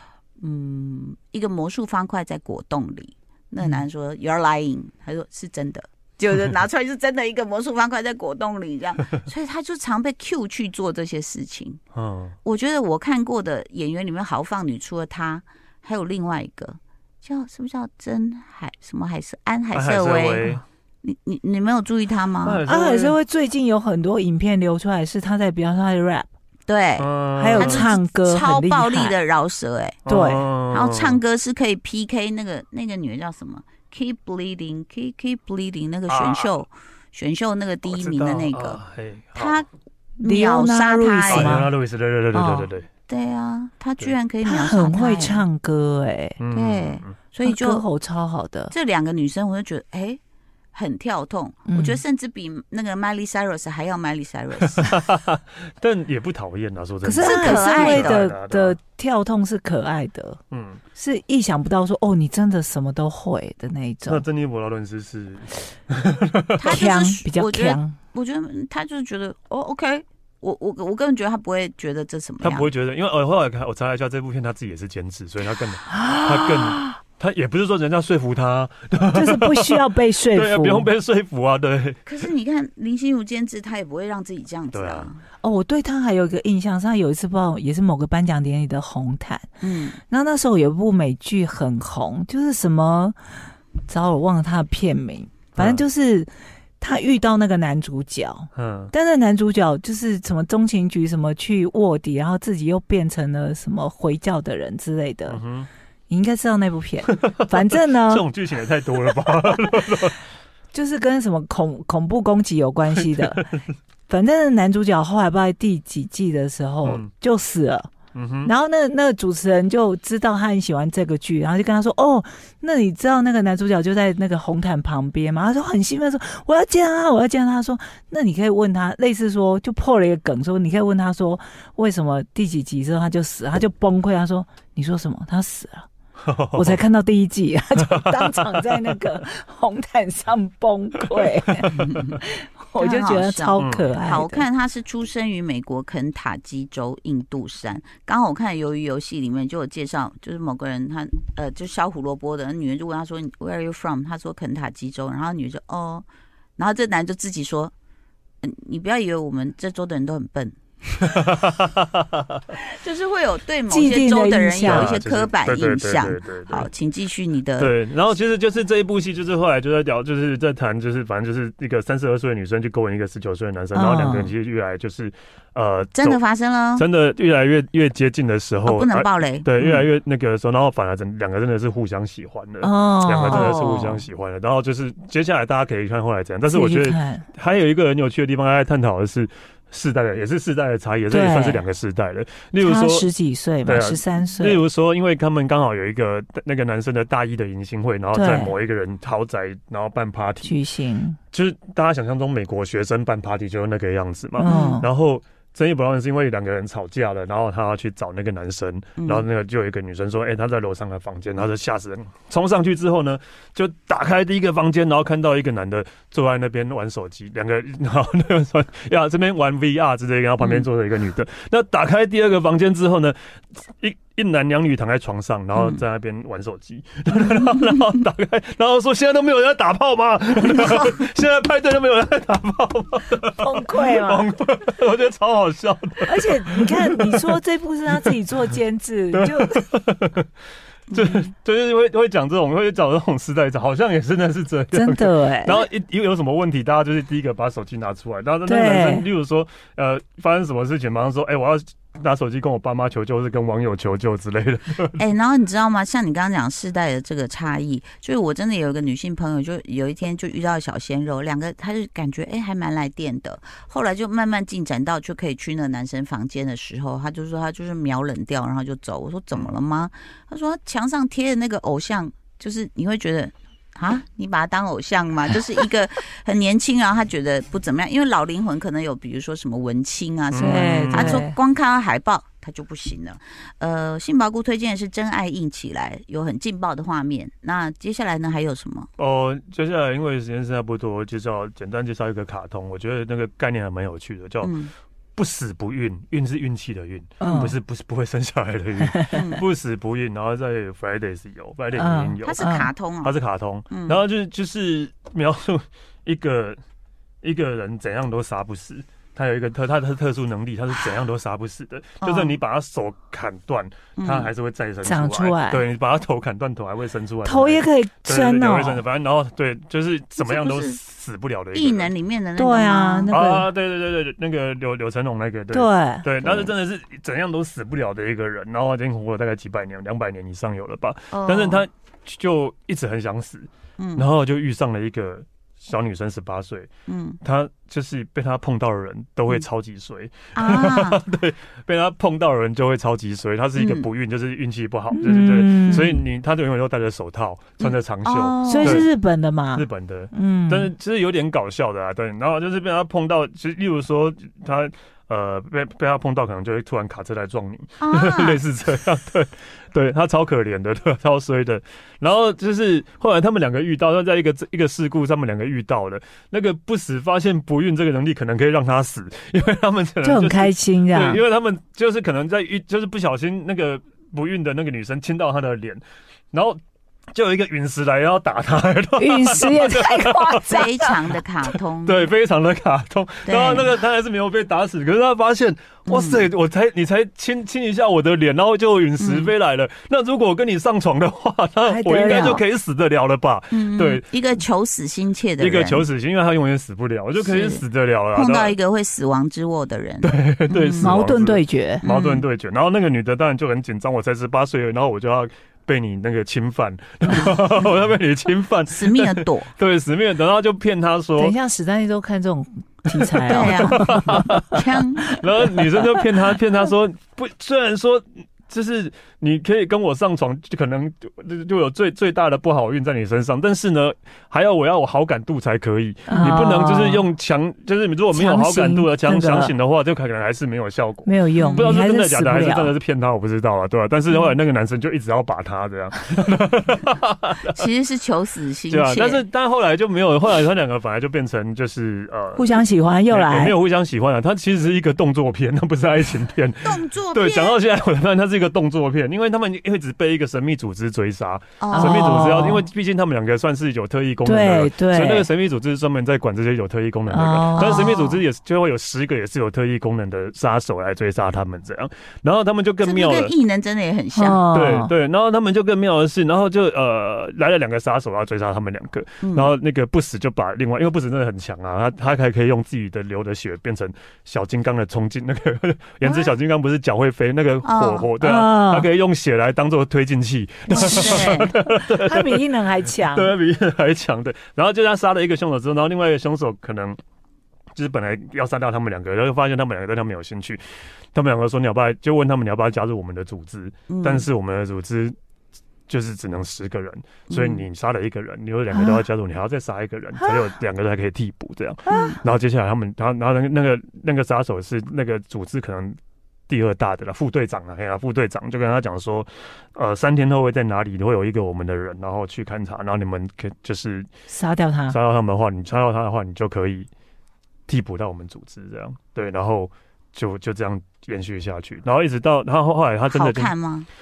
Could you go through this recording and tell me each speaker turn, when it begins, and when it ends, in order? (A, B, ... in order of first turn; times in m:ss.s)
0:00.4-0:11.8 A
0:11.9-0:12.3 B
0:12.4-0:20.5 A
0:19.7-0:20.6 B
0:21.0-0:22.6 A
0:22.4-0:23.2 B
0:22.6-0:26.3 C
0:26.7-0:30.0 A
0:27.0-0:27.9 B
0:27.4-0:29.2 C
0:30.0-0:31.2 B
0:30.1-0:30.4 C
0:30.7-0:38.8 A
0:36.1-0:36.6 B
0:37.8-0:39.6 B
0:39.3-0:39.7 A
0:40.2-0:41.6 A
0:40.2-0:41.7 C
0:41.3-0:42.9 B
0:42.3-0:42.7 C
0:43.1-0:45.4 A
0:44.4-0:46.4 C
0:46.4-0:47.2 B
0:46.5-0:47.8 A
0:47.4-0:48.7 C
0:48.7-0:50.2 A
0:50.7-0:54.8 A
0:51.6-0:52.0 C
0:54.6-0:58.8 B
0:57.0-1:00.4 C
0:57.2-0:58.2 A
1:00.5-1:00.8 B
1:01.0-1:04.2 C
1:04.0-1:06.8 B
1:06.6-1:12.7 A
1:06.6-1:08.0 C
1:12.4-1:22.0 B
1:15.9-1:17.0 C
1:19.1-1:20.9 C
1:22.0-1:25.2 A
1:24.7-1:25.1 B
1:25.4-1:29.5 C
1:29.6-1:30.0 A
1:30.1-1:45.4 C
1:35.5-1:35.8 B
1:38.5-1:38.9 B
1:45.3-1:45.7 B
1:46.1-1:48.2 C
1:47.1-1:50.2 B
1:50.7-1:53.5 C
1:54.1-1:57.9 C
1:56.8-1:57.1 B
1:58.1-1:58.5 B
1:58.4-2:15.9 C
2:16.2-2:16.8 B
2:16.5-2:24.4 C
2:17.8-2:18.8 B
2:21.6-2:22.2 A
2:22.8-2:36.0 A
2:23.6-2:23.9 B
2:36.6-2:37.7 A
2:38.4-2:40.6 A
2:41.1-2:41.8 B
2:42.8-2:47.7 A
2:43.7-2:44.9 C
2:44.6-2:46.7 B
2:47.6-2:56.2 B
2:53.7-2:54.3 C
2:55.9-2:56.8 A
2:56.8-3:13.1 B
2:58.6-2:59.7 A
3:02.6-3:03.5 C
3:03.3-3:04.0 A
3:06.5-3:07.3 C
3:11.1-3:11.6 C
3:12.6-3:14.6 C
3:13.6-3:20.6 B
3:18.1-3:18.5 C
3:20.4-3:21.2 C
3:21.3-3:57.2 B
3:24.4-3:24.9 C
3:24.5-3:24.8 A
3:29.0-3:29.2 A
3:40.4-3:40.7 A
3:45.5-3:45.8 A
3:53.4-3:54.3 C
3:56.0-3:59.6 C
3:59.1-4:00.2 B
4:00.9-4:15.0 B
4:04.7-4:05.6 C
4:08.4-4:09.1 C
4:15.0-4:48.9 A
4:40.3-4:41.2 B
4:40.4-4:41.3 C
4:49.0-4:54.5 B
4:54.4-4:54.7 A
4:55.2-5:02.4 B
4:57.2-4:57.6 C
4:59.1-4:59.4 A
5:01.7-5:02.7 C
5:02.2-5:03.1 A
5:03.0-5:06.6 B
5:03.7-5:04.0 A
5:07.2-5:21.9 B
5:12.0-5:12.4 A
5:14.0-5:14.3 A
5:14.8-5:15.6 C
5:17.2-5:18.8 C
5:20.2-5:20.8 A
5:21.5-5:23.1 A
5:22.4-5:23.5 C
5:23.1-5:36.7 B
5:25.5-5:26.0 C
5:26.2-5:26.5 A
5:31.1-5:31.6 A
5:33.8-5:34.1 A
5:36.9-5:37.2 A
5:37.2-5:48.9 B
5:40.3-5:41.0 A
5:43.5-5:43.9 A
5:44.9-5:46.0 C
5:47.6-5:48.8 A
5:48.4-5:50.7 C
5:49.5-6:16.6 B
5:57.8-5:58.4 A
6:10.0-6:11.2 C
6:17.1-6:34.0 B
6:19.0-6:20.9 C
6:20.5-6:22.1 A
6:23.2-6:23.7 A
6:25.9-6:26.3 A
6:29.0-6:29.3 A
6:31.6-6:32.4 C
6:32.1-6:32.4 A
6:33.5-6:35.9 A
6:35.4-6:38.6 B
6:37.2-6:41.0 A
6:40.0-6:51.3 B
6:40.8-6:41.8 C
6:41.8-6:42.2 A
6:48.7-6:49.5 A
6:51.2-6:54.5 C
6:52.9-6:54.4 B
6:53.3-6:55.1 A
6:55.1-7:17.5 B
7:06.1-7:07.0 C
7:08.1-7:09.5 C
7:11.0-7:12.7 C
7:11.4-7:11.7 A
7:17.5-7:19.2 A
7:18.7-7:22.5 B
7:22.4-7:23.5 C
7:23.1-7:43.4 B
7:26.6-7:27.6 A
7:31.6-7:32.2 A
7:31.7-7:32.6 C
7:34.2-7:35.3 C
7:37.1-7:38.0 C
7:37.5-7:38.2 A
7:42.8-7:44.4 A
7:44.2-7:44.9 C
7:44.5-8:07.0 B
7:49.2-7:49.5 A
7:56.0-7:56.3 A
7:57.6-7:58.1 A
7:58.2-7:58.9 C
8:00.7-8:01.3 C
8:00.7-8:01.5 A
8:01.9-8:03.3 C
8:07.7-8:15.2 B
8:13.9-8:14.2 A
8:15.9-8:26.0 B
8:17.3-8:17.6 A
8:18.7-8:19.0 C
8:21.9-8:22.2 C
8:21.9-8:22.2 A
8:26.5-8:34.1 B
8:34.3-8:35.0 C
8:34.9-8:36.9 B
8:37.7-8:43.5 B
8:43.1-8:43.9 A